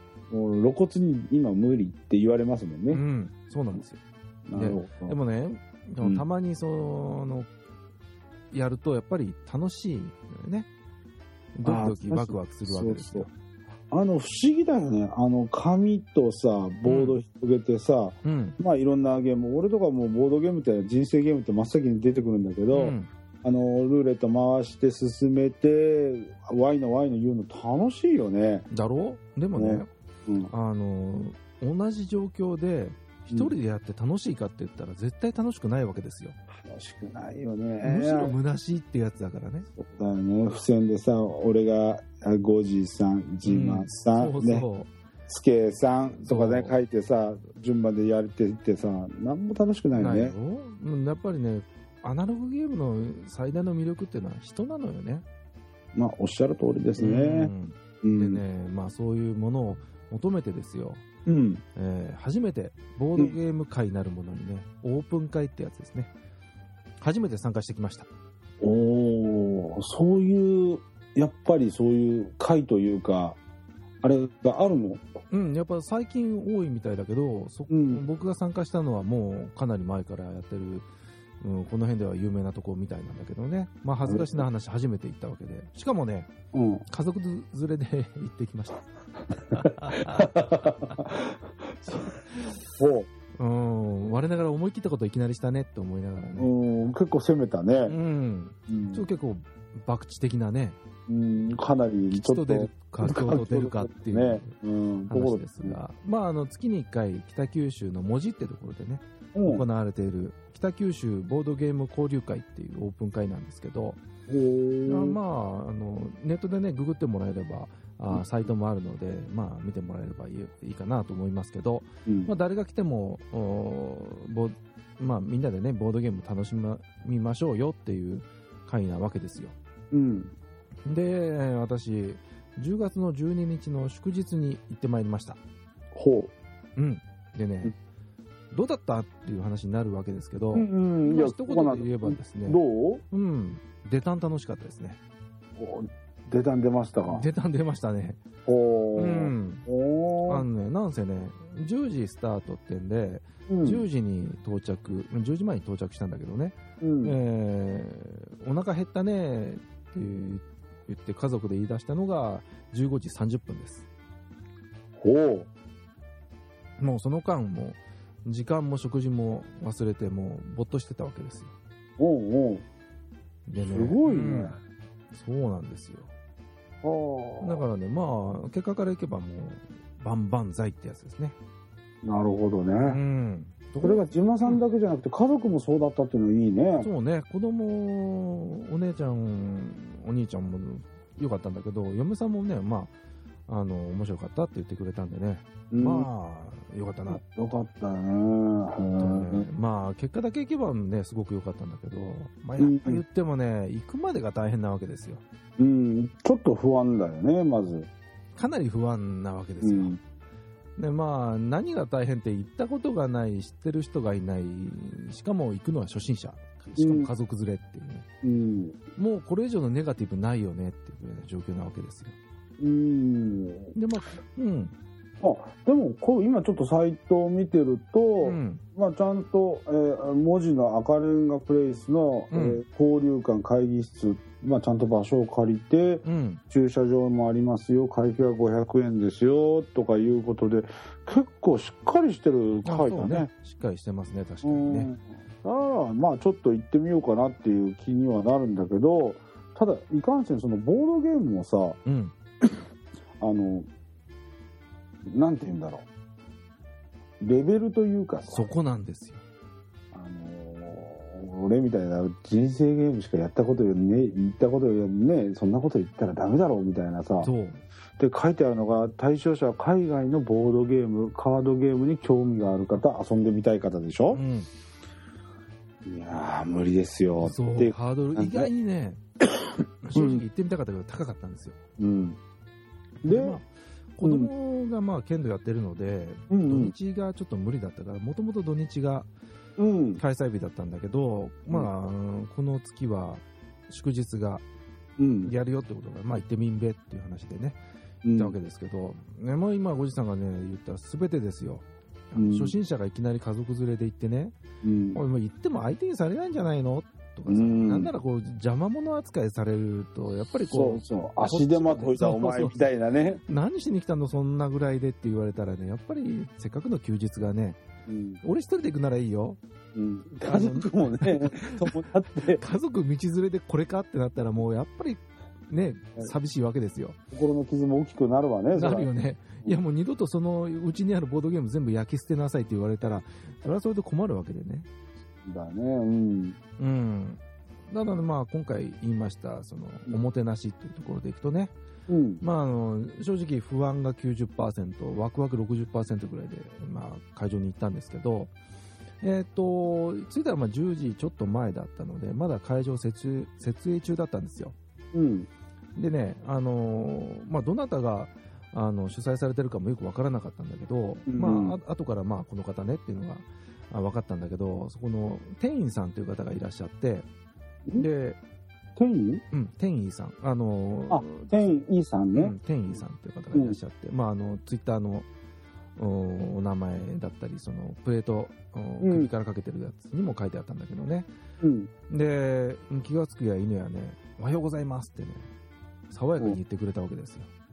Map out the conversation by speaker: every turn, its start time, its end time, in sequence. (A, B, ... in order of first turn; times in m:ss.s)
0:00.3-0:03.0 A
0:02.9-0:04.0 B
0:04.4-0:05.2 A
0:04.5-0:07.5 B
0:08.5-0:10.7 B
0:11.5-0:13.3 B
0:11.6-0:13.2 A
0:13.9-0:28.7 A
0:16.8-0:17.2 B
0:18.2-0:18.6 B
0:22.7-0:23.1 B
0:28.7-0:29.9 B
0:29.5-0:30.5 A
0:30.5-0:36.4 B
0:36.6-0:38.3 A
0:37.8-0:39.7 B
0:39.7-0:44.6 A
0:43.4-0:44.9 B
0:45.3-0:50.3 A
0:46.1-0:46.8 B
0:49.9-0:55.2 B
0:55.9-0:58.4 A
0:57.0-1:01.0 B
1:01.2-1:01.6 A
1:01.8-1:06.1 B
1:07.0-1:08.1 B
1:08.6-1:13.4 A
1:14.0-1:15.0 A
1:15.3-1:20.9 B
1:17.7-1:18.0 A
1:21.4-1:26.3 B
1:24.0-1:24.4 A
1:26.5-1:26.8 A
1:26.9-1:30.3 B
1:29.5-1:32.1 A
1:31.9-1:32.6 B
1:32.7-1:33.1 A
1:33.4-1:36.5 B
1:36.4-1:37.9 A
1:37.8-1:40.8 B
1:38.7-1:39.0 A
1:41.1-1:45.8 A
1:42.1-1:44.5 B
1:45.1-1:54.0 B
1:49.3-1:49.6 A
1:54.3-1:55.2 A
1:54.8-2:09.5 B
2:02.0-2:02.3 A
2:09.9-2:10.3 A
2:10.8-2:15.4 B
2:15.9-2:16.3 A
2:16.8-2:17.7 B
2:18.5-2:22.6 B
2:20.5-2:23.0 A
2:23.1-2:25.0 B
2:25.6-2:27.2 A
2:27.0-2:28.2 B
2:28.4-2:30.4 A
2:28.9-2:29.6 B
2:30.3-2:43.9 B
2:33.5-2:33.9 A
2:36.8-2:37.2 A
2:45.0-2:45.5 A
2:46.8-2:51.5 B
2:52.0-2:52.6 A
2:53.5-2:54.6 B
2:53.6-2:54.6 A
2:55.1-2:56.1 B
2:56.8-2:57.6 A
2:57.4-3:01.4 B
3:02.0-3:03.0 A
3:02.8-3:04.6 B
3:03.8-3:06.9 A
3:06.8-3:12.9 B
3:13.5-3:17.2 B
3:15.7-3:16.1 A
3:17.1-3:19.5 A
3:19.0-3:25.2 B
3:22.6-3:23.0 A
3:25.6-3:27.9 A
3:28.3-3:30.0 B
3:29.6-3:30.0 A
3:30.8-3:38.1 B
3:36.8-3:37.1 A
3:38.2-3:38.8 A
3:39.0-3:42.2 B
3:42.6-3:43.7 A
3:43.7-3:44.7 B
3:45.2-4:03.3 A
3:48.2-3:48.6 B
3:52.3-3:52.6 B
3:56.0-3:56.4 B
4:02.6-4:04.9 B
4:04.4-4:11.8 A
4:11.8-4:12.1 B
4:13.2-4:13.7 A
4:15.0-4:15.9 A
4:17.2-4:18.5 A
4:18.3-4:19.2 B
4:19.9-4:27.3 A
4:27.2-4:27.6 B
4:28.0-4:34.2 A
4:34.1-4:34.5 B
4:35.8-4:38.5 A
4:37.2-4:39.0 B
4:39.8-4:41.6 B
4:39.9-4:40.2 A
4:41.8-4:42.2 A
4:43.0-4:49.1 B
4:43.0-4:43.4 A
4:44.0-4:44.3 A
4:46.3-4:46.7 A
4:49.6-4:50.0 A
4:50.0-4:54.4 B
4:55.0-4:55.3 A
4:55.2-4:57.6 B
4:58.0-4:58.3 A
4:58.1-5:04.4 B
5:02.2-5:02.5 A
5:04.6-5:05.0 A
5:04.9-5:12.7 B
5:07.3-5:07.9 A
5:10.5-5:13.2 A
5:13.2-5:17.6 B
5:17.9-5:18.2 A
5:18.2-5:19.4 B
5:19.7-5:22.4 A
5:20.2-5:21.8 B
5:22.3-5:27.0 B
5:27.1-5:28.9 A
5:28.5-5:34.7 B
5:35.2-5:36.4 A
5:36.6-5:41.5 B
5:41.9-5:42.2 A
5:42.2-5:48.3 B
5:49.0-5:54.5 B
5:54.9-5:55.3 A
5:55.7-6:07.0 B
6:01.1-6:01.6 A
6:07.7-6:08.2 B
6:08.8-6:09.2 A
6:09.3-6:11.5 B
6:10.9-6:12.3 A
6:12.1-6:15.1 B
6:15.8-6:21.1 B
6:18.8-6:19.1 A
6:21.4-6:21.7 A
6:21.9-6:25.3 B
6:25.9-6:27.3 B